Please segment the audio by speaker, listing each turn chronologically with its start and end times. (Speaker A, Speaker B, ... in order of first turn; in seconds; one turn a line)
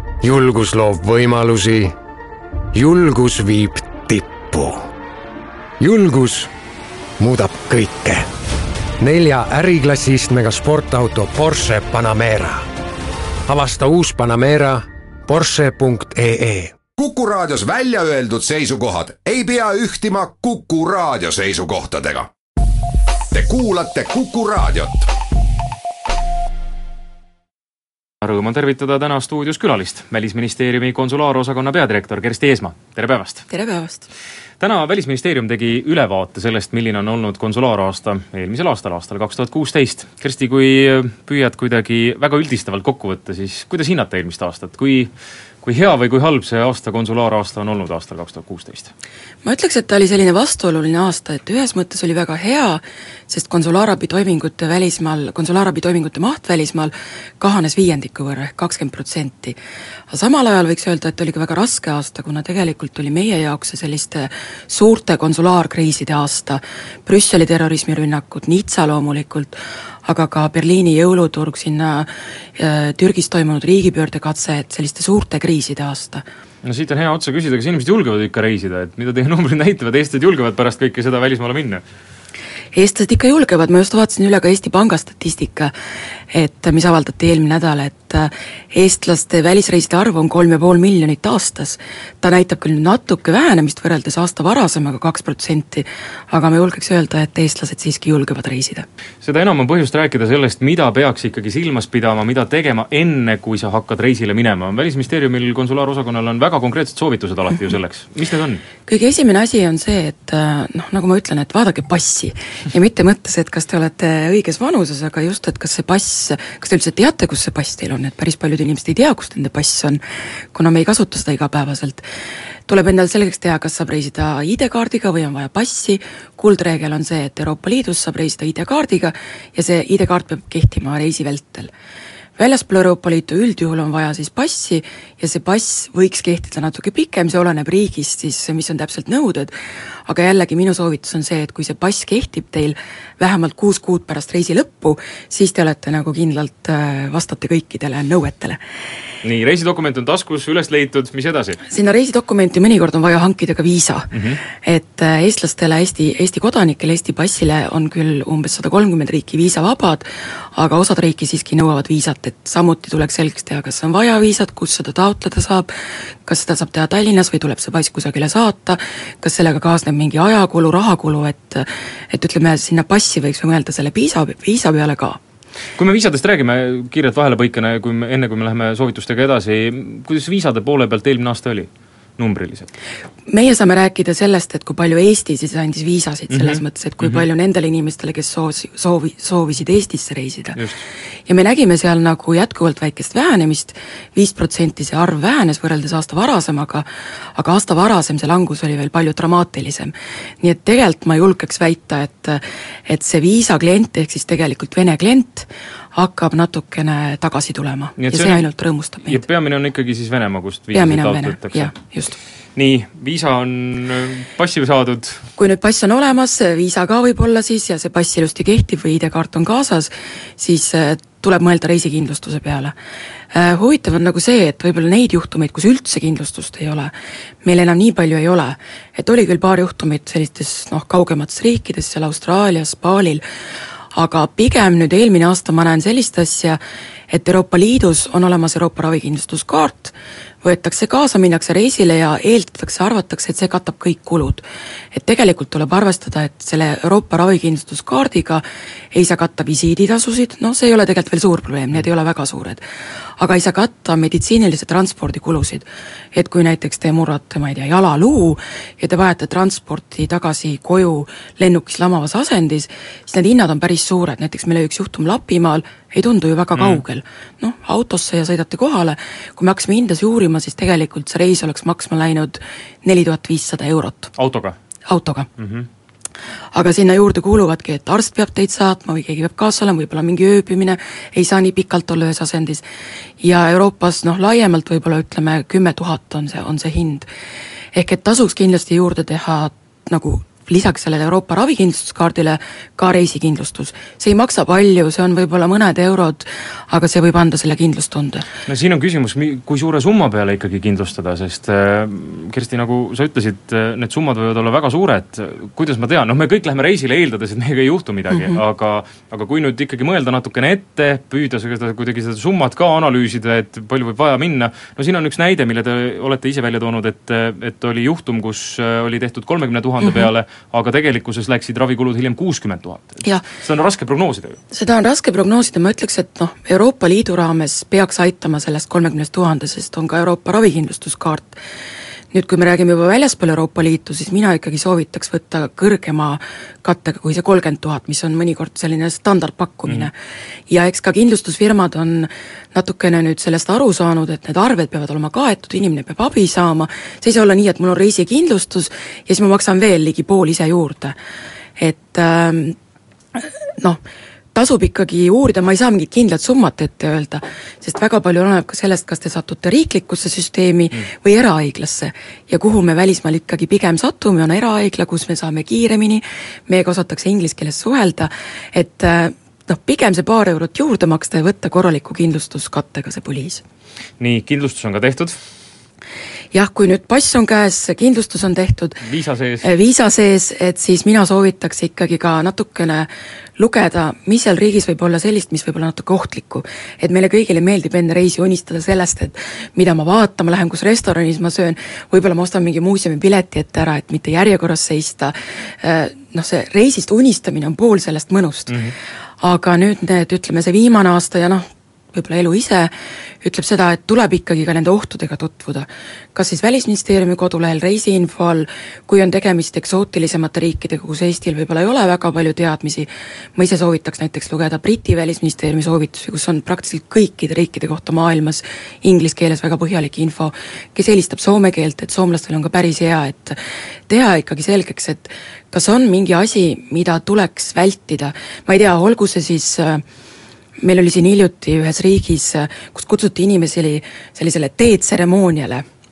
Speaker A: 0.2-1.9
Speaker A: 2.7-4.9
Speaker A: 5.8-6.5
Speaker A: 7.2-8.2
Speaker A: 9.0-12.6
Speaker A: 13.4-16.8
Speaker B: 16.9-22.3
Speaker B: 23.3-25.1
Speaker C: 28.2-33.5
Speaker D: 33.5-34.1
Speaker C: 34.6-45.1
Speaker C: 45.6-48.9
Speaker D: 49.4-59.6
Speaker D: 60.1-76.2
Speaker C: 76.6-81.8
Speaker D: 82.7-85.7
Speaker D: 86.3-98.8
Speaker C: 99.2-108.6
Speaker D: 108.9-120.0
Speaker D: 120.5-122.0
Speaker D: 122.7-131.7
Speaker D: 132.4-139.5
Speaker D: 140.1-148.6
Speaker C: 149.2-151.6
Speaker D: 151.7-165.7
Speaker C: 154.1-154.4
Speaker D: 166.2-175.2
Speaker C: 175.8-182.7
Speaker D: 183.3-190.6
Speaker C: 186.3-187.2
Speaker D: 191.3-209.2
Speaker C: 208.0-208.5
Speaker C: 209.1-211.7
Speaker D: 210.7-212.1
Speaker C: 212.6-215.2
Speaker D: 215.4-222.7
Speaker D: 223.3-226.9
Speaker D: 227.4-233.2
Speaker D: 233.9-252.6
Speaker D: 253.2-274.1
Speaker C: 266.5-266.8
Speaker C: 274.2-274.6
Speaker D: 274.9-275.3
Speaker C: 275.4-275.7
Speaker D: 276.5-282.6
Speaker D: 283.2-287.1
Speaker D: 287.7-298.2
Speaker C: 298.4-324.4
Speaker D: 308.1-308.4
Speaker D: 319.8-320.1
Speaker D: 324.5-331.4
Speaker D: 332.1-339.9
Speaker D: 340.5-350.9
Speaker D: 351.6-352.6
Speaker D: 353.1-353.8
Speaker D: 354.3-373.4
Speaker C: 374.0-375.2
Speaker D: 376.3-378.8
Speaker C: 378.8-379.5
Speaker D: 379.4-398.6
Speaker C: 398.5-398.7
Speaker D: 399.2-429.8
Speaker D: 430.6-435.6